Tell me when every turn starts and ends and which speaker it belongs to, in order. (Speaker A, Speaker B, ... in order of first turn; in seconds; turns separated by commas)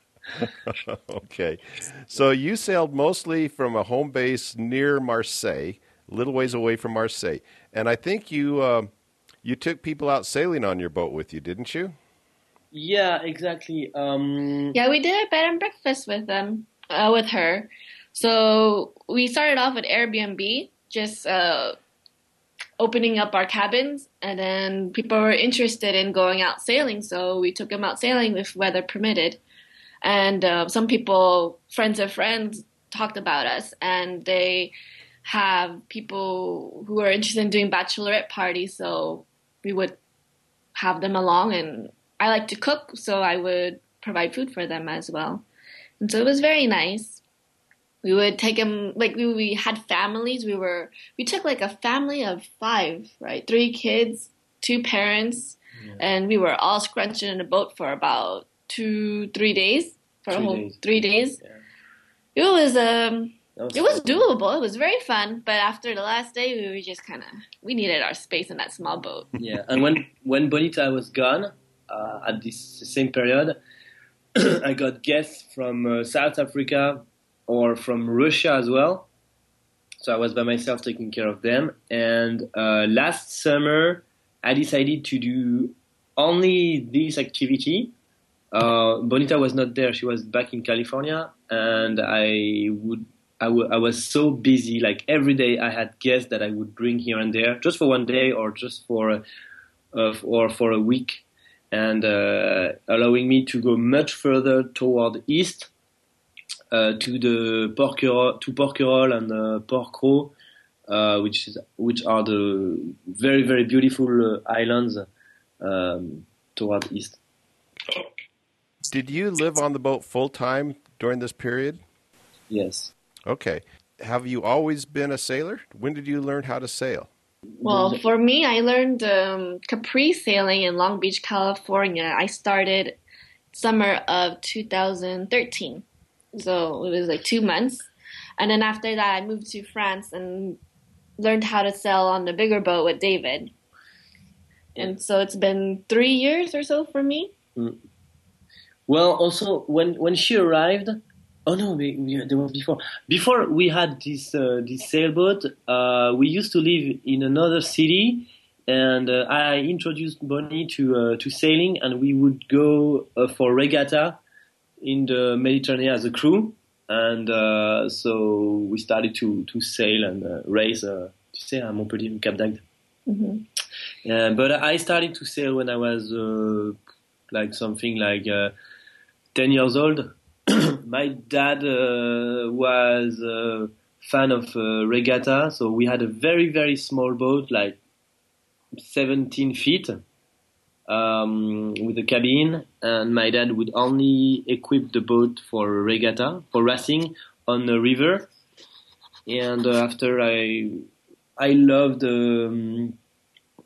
Speaker A: 0.7-8.9, Speaker A: 9.4-12.0, Speaker B: 12.7-14.8, Speaker C: 14.7-21.8, Speaker C: 22.8-29.4, Speaker C: 30.0-34.7, Speaker C: 35.2-40.0, Speaker C: 40.8-45.5, Speaker C: 46.0-47.2, Speaker C: 48.0-61.4, Speaker B: 60.3-61.5, Speaker C: 62.4-69.3, Speaker B: 63.6-64.3, Speaker B: 69.4-73.6, Speaker B: 74.4-79.1, Speaker B: 80.0-87.9, Speaker B: 88.5-99.2, Speaker B: 99.9-105.7, Speaker B: 106.7-110.3, Speaker B: 110.9-115.1, Speaker B: 115.6-117.2, Speaker A: 118.9-121.8, Speaker B: 122.5-122.9, Speaker A: 123.3-127.1, Speaker B: 127.6-128.0, Speaker C: 127.6-133.0, Speaker C: 133.5-140.6, Speaker C: 141.2-143.5, Speaker C: 144.8-147.3, Speaker B: 148.9-164.2, Speaker B: 164.8-172.6, Speaker C: 173.1-173.4, Speaker B: 174.1-176.8, Speaker B: 177.3-178.5, Speaker B: 179.3-187.8, Speaker B: 188.8-190.0, Speaker B: 190.9-198.3, Speaker B: 199.3-200.8, Speaker B: 201.4-203.0